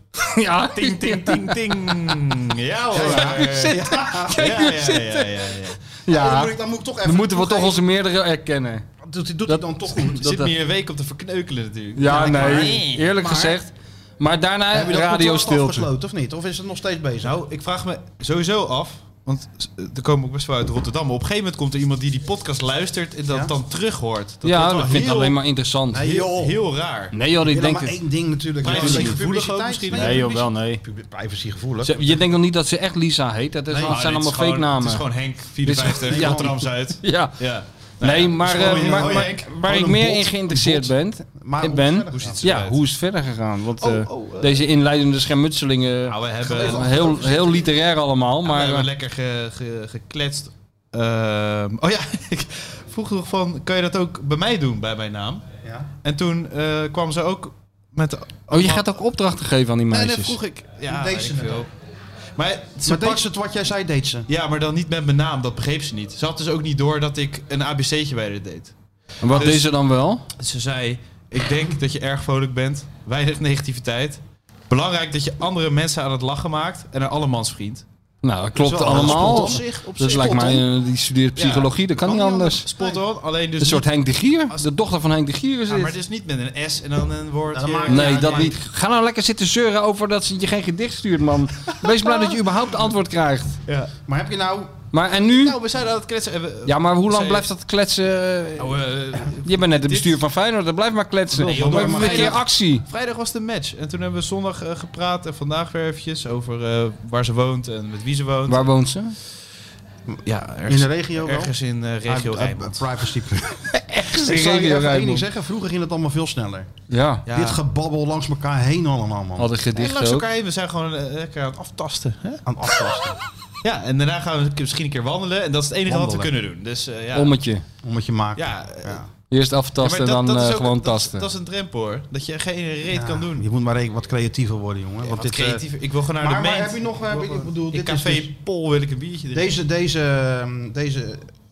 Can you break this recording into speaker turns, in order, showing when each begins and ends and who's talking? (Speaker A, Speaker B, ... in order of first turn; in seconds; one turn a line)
Speaker A: 0.3-2.1
Speaker B: 0.7-3.8
Speaker C: 2.9-4.7
Speaker A: 2.9-6.5
Speaker B: 4.3-5.8
Speaker C: 6.1-7.8
Speaker A: 7.0-8.8
Speaker C: 9.0-10.3
Speaker A: 9.5-10.5
Speaker B: 10.1-13.1
Speaker A: 11.9-15.9
Speaker C: 12.0-13.6
Speaker C: 14.7-17.4
Speaker B: 17.2-25.4
Speaker C: 23.3-23.5
Speaker A: 24.4-26.1
Speaker C: 24.9-25.3
Speaker C: 25.9-26.6
Speaker B: 26.0-27.1
Speaker A: 27.1-28.0
Speaker C: 27.4-32.2
Speaker B: 28.6-30.4
Speaker A: 28.6-29.2
Speaker A: 29.9-30.8
Speaker A: 31.8-35.0
Speaker C: 33.7-34.0
Speaker B: 33.9-39.5
Speaker A: 35.6-37.4
Speaker C: 36.1-36.6
Speaker A: 38.0-48.9
Speaker C: 38.4-42.5
Speaker B: 42.1-42.8
Speaker B: 43.8-44.5
Speaker B: 46.1-47.3
Speaker C: 46.4-47.7
Speaker B: 48.4-55.5
Speaker C: 55.6-55.9
Speaker B: 56.0-58.9
Speaker A: 58.5-60.4
Speaker B: 59.9-61.7
Speaker C: 60.8-61.7
Speaker B: 62.4-63.2
Speaker C: 62.8-64.3
Speaker B: 64.3-68.7
Speaker A: 69.2-70.2
Speaker B: 69.3-69.7
Speaker B: 70.3-77.8
Speaker A: 78.2-82.7
Speaker C: 78.5-80.6
Speaker B: 78.7-80.6
Speaker B: 81.4-81.7
Speaker C: 82.0-83.0
Speaker B: 82.6-83.9
Speaker A: 83.6-86.0
Speaker B: 85.7-88.5
Speaker C: 87.5-88.6
Speaker A: 87.9-93.6
Speaker B: 93.7-93.9
Speaker C: 94.0-94.8
Speaker A: 94.9-95.6
Speaker B: 95.1-97.5
Speaker A: 96.7-102.8
Speaker B: 98.6-100.2
Speaker C: 101.3-102.4
Speaker B: 101.4-108.7
Speaker A: 108.5-109.2
Speaker B: 110.2-112.8
Speaker C: 110.7-116.7
Speaker A: 113.8-115.2
Speaker A: 116.9-117.3
Speaker B: 117.3-117.6
Speaker C: 117.3-119.5
Speaker A: 119.4-120.3
Speaker B: 119.7-122.4
Speaker C: 122.4-123.2
Speaker B: 123.6-127.3
Speaker C: 125.9-126.3
Speaker A: 127.1-127.6
Speaker C: 127.8-129.1
Speaker B: 128.3-129.0
Speaker A: 129.3-131.3
Speaker B: 129.8-133.4
Speaker C: 132.9-138.3
Speaker B: 135.0-139.6
Speaker C: 139.3-141.3